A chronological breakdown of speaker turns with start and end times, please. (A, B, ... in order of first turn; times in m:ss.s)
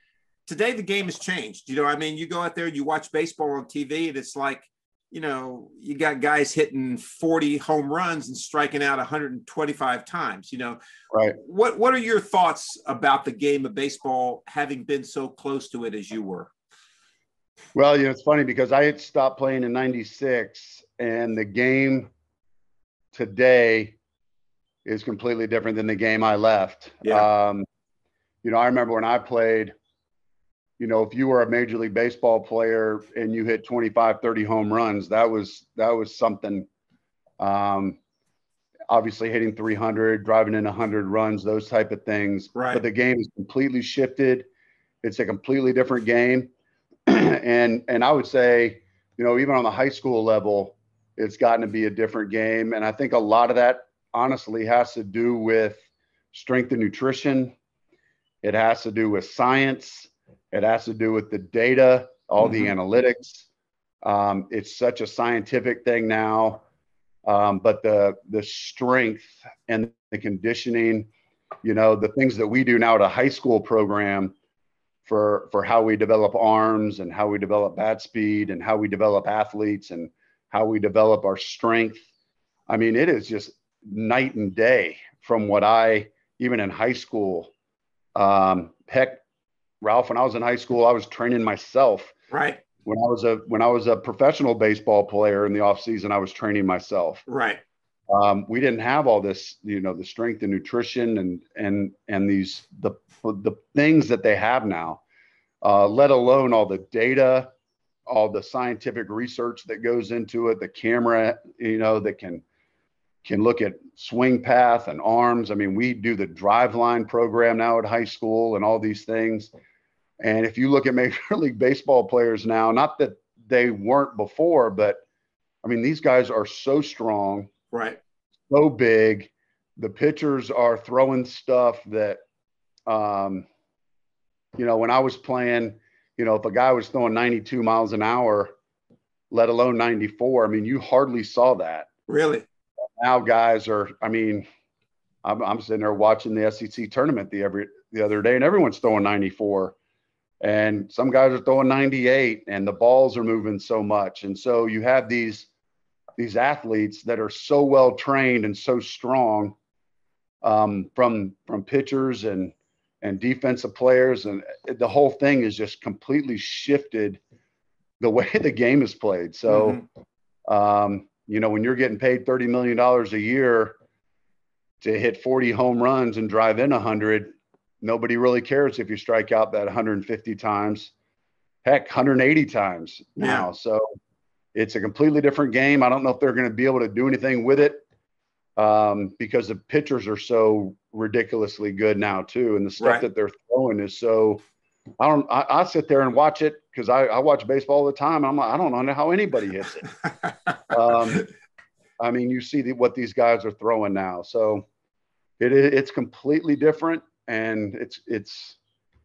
0:00.5-0:10.8 A
0:11.1-0:11.4 B
0:11.3-0:16.5 A
0:17.7-0:22.1 B
0:23.1-0:24.0 B
0:24.8-0:27.6 B
0:28.4-0:29.7 B
0:30.8-0:36.7 B
0:37.4-0:38.0 B
0:38.9-0:44.5 B
0:42.5-0:42.8 A
0:45.0-0:46.5 B
0:47.1-0:57.5 B
0:58.4-1:03.5 B
1:02.4-1:02.7 A
1:04.0-1:06.6 B
1:07.2-1:11.1 B
1:11.6-1:14.3 B
1:15.0-1:22.1 B
1:22.7-1:27.5 B
1:28.2-1:29.2 B
1:29.8-1:32.1 B
1:32.3-1:32.6 A
1:32.8-1:37.2 B
1:37.3-1:37.6 A
1:38.1-1:45.0 B
1:45.6-1:47.5 B
1:48.1-1:52.4 B
1:53.2-1:59.5 B
2:00.2-2:05.0 B
2:05.6-2:07.5 B
2:07.7-2:08.0 A
2:08.5-2:12.2 B
2:12.9-2:13.4 B
2:14.6-2:18.5 B
2:19.3-2:21.9 B
2:22.1-2:22.4 A
2:23.0-2:24.4 B
2:25.2-2:29.8 B
2:30.4-2:35.5 B
2:36.2-2:39.5 B
2:40.4-2:47.2 B
2:48.0-2:49.8 B
2:49.5-2:49.8 A
2:50.5-2:53.8 B
2:54.8-3:00.9 B
3:01.6-3:03.8 B
3:03.2-3:03.5 A
3:04.5-3:07.8 B
3:08.6-3:14.4 B
3:15.0-3:19.9 B
3:20.7-3:21.3 B
3:22.0-3:24.6 B
3:25.4-3:28.6 B